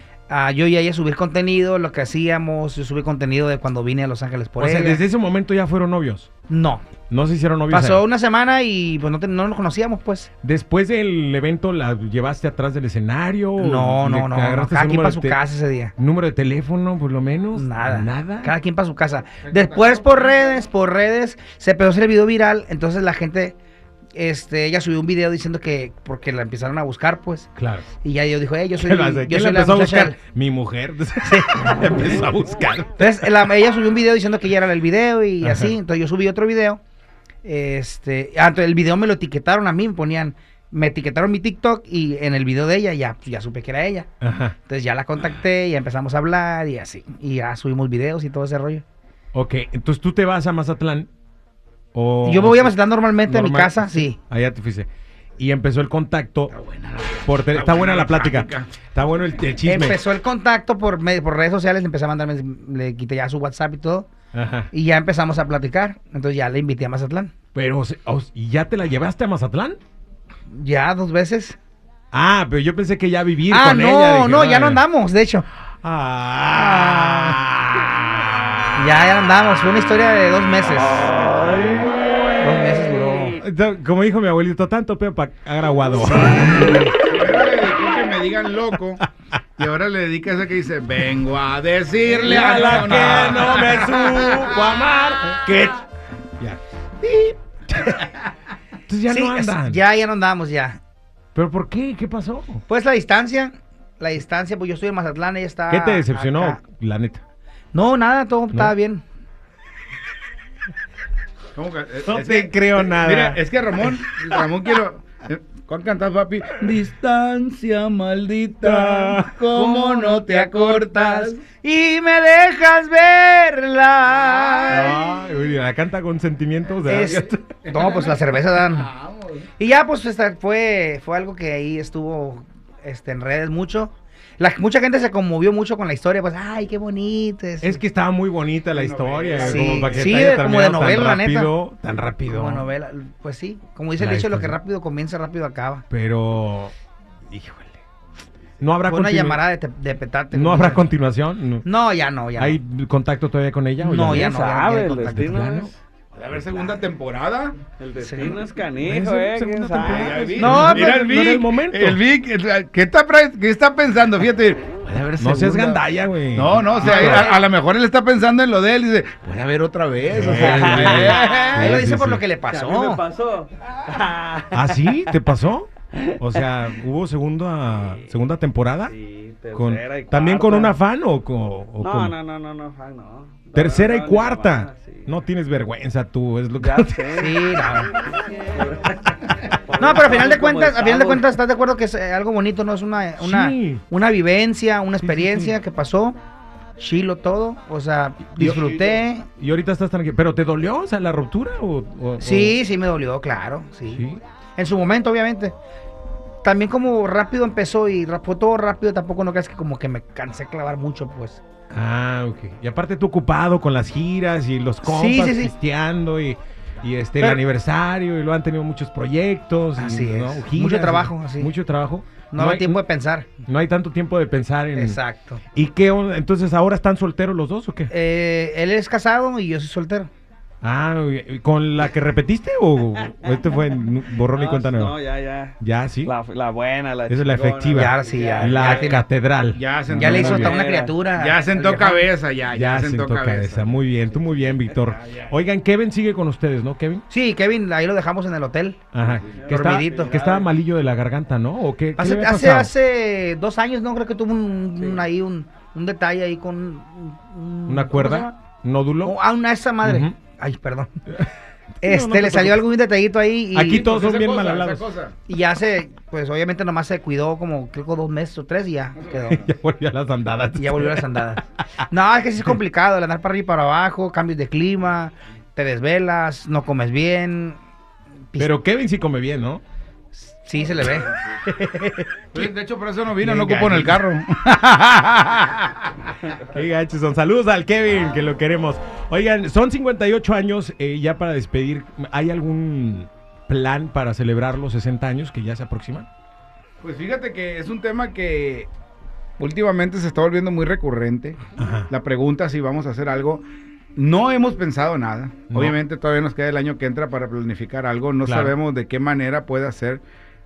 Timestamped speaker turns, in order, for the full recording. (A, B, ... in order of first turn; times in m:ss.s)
0:00.3-0:05.0 A
0:04.6-0:06.3 B
0:06.5-0:06.8 A
0:07.1-0:08.0 B
0:07.7-0:10.3 A
0:10.4-0:15.4 B
0:13.6-0:15.9 A
0:16.0-0:18.5 B
0:17.6-0:23.6 A
0:19.4-0:20.5 C
0:24.2-0:30.2 A
0:27.6-0:27.9 B
0:28.8-0:33.2 B
0:31.2-0:31.7 A
0:33.0-0:36.8 A
0:35.4-0:35.7 B
0:37.4-0:44.1 A
0:44.2-0:44.6 B
0:44.6-0:48.8 A
0:49.3-0:51.1 B
0:51.9-0:56.5 B
0:52.2-0:54.2 A
0:56.5-0:58.7 C
0:57.2-1:00.0 B
0:59.6-1:04.1 A
1:04.3-1:04.7 B
1:04.7-1:07.3 A
1:07.5-1:09.8 B
1:10.5-1:11.6 A
1:12.1-1:14.8 B
1:13.5-1:15.4 A
1:15.8-1:18.3 B
1:16.6-1:17.4 A
1:18.8-1:21.8 A
1:21.0-1:21.9 D
1:22.4-1:23.4 A
1:23.4-1:26.9 B
1:27.0-1:34.6 C
1:32.1-1:35.8 B
1:32.1-1:33.4 A
1:36.4-1:37.0 B
1:37.7-1:38.0 B
1:38.9-1:39.8 B
1:39.1-1:40.8 A
1:41.4-1:42.6 B
1:42.7-1:46.6 A
1:45.7-1:47.2 B
1:47.7-1:49.0 A
1:51.6-2:01.4 C
1:52.1-1:53.4 B
1:58.6-1:59.4 B
1:59.5-2:05.0 A
2:04.1-2:05.1 C
2:04.7-2:07.5 B
2:06.8-2:08.9 A
2:07.6-2:09.4 C
2:09.6-2:17.8 A
2:17.6-2:22.7 B
2:18.7-2:20.7 C
2:19.4-2:21.5 A
2:22.3-2:25.8 A
2:24.0-2:24.6 B
2:25.9-2:26.7 B
2:27.3-2:27.8 B
2:28.6-2:29.4 B
2:28.9-2:30.9 A
2:30.3-2:31.7 B
2:31.6-2:32.6 A
2:32.4-2:34.4 B
2:33.8-2:35.3 A
2:34.1-2:35.8 D
2:35.0-2:35.7 B
2:36.1-2:37.6 C
2:37.8-2:40.5 D
2:38.0-2:38.4 A
2:38.8-2:42.0 B
2:39.8-2:45.8 C
2:40.4-2:41.1 A
2:45.2-2:47.3 B
2:46.3-2:51.6 C
2:46.8-2:47.4 A
2:50.1-2:52.2 B
2:50.2-2:53.0 A
2:50.8-2:51.4 D
2:52.5-2:55.0 D
2:54.5-2:58.9 B
2:58.9-3:00.7 D
2:59.5-3:02.2 B
3:01.8-3:05.1 D
3:03.6-3:07.1 B
3:06.6-3:07.4 D
3:07.2-3:07.9 A
3:08.4-3:11.2 D
3:09.8-3:16.2 A
3:13.2-3:13.8 B
3:15.0-3:15.6 B
3:16.8-3:19.3 A
3:18.4-3:22.6 B
3:22.2-3:25.6 A
3:23.9-3:24.2 B
3:26.4-3:31.4 A
3:31.7-3:42.8 B
3:34.8-3:35.5 A
3:39.8-3:41.5 A
3:42.3-3:43.3 A
3:43.4-3:45.0 B
3:44.8-3:45.4 A
3:45.5-3:47.9 B
3:47.9-3:50.1 A
3:50.6-3:55.0 B
3:54.3-3:59.0 D
3:55.6-3:56.2 B
3:57.1-4:00.6 B
3:57.7-3:59.0 A
3:58.3-3:58.9 C
3:59.6-4:00.6 C
3:59.9-4:02.1 A
4:00.3-4:00.9 D
4:01.2-4:03.7 C
4:02.5-4:07.0 B
4:07.1-4:08.8 A
4:08.9-4:12.7 B
4:09.2-4:10.5 D
4:09.5-4:10.2 A
4:12.0-4:18.4 A
4:17.7-4:19.2 B
4:19.0-4:21.0 A
4:19.8-4:20.2 B
4:21.8-4:22.6 B
4:21.8-4:23.9 A
4:23.5-4:24.9 B
4:23.7-4:25.2 C
4:25.3-4:29.5 A
4:29.2-4:31.4 B
4:30.6-4:37.6 A
4:38.4-4:39.6 B
4:40.1-4:42.0 A
4:42.3-4:45.9 C
4:43.2-4:44.0 B
4:46.4-4:56.1 B
4:56.8-4:58.7 C
4:59.4-5:03.4 C
5:01.6-5:01.9 B
5:04.0-5:10.0 C
5:05.5-5:05.8 B
5:08.3-5:08.6 B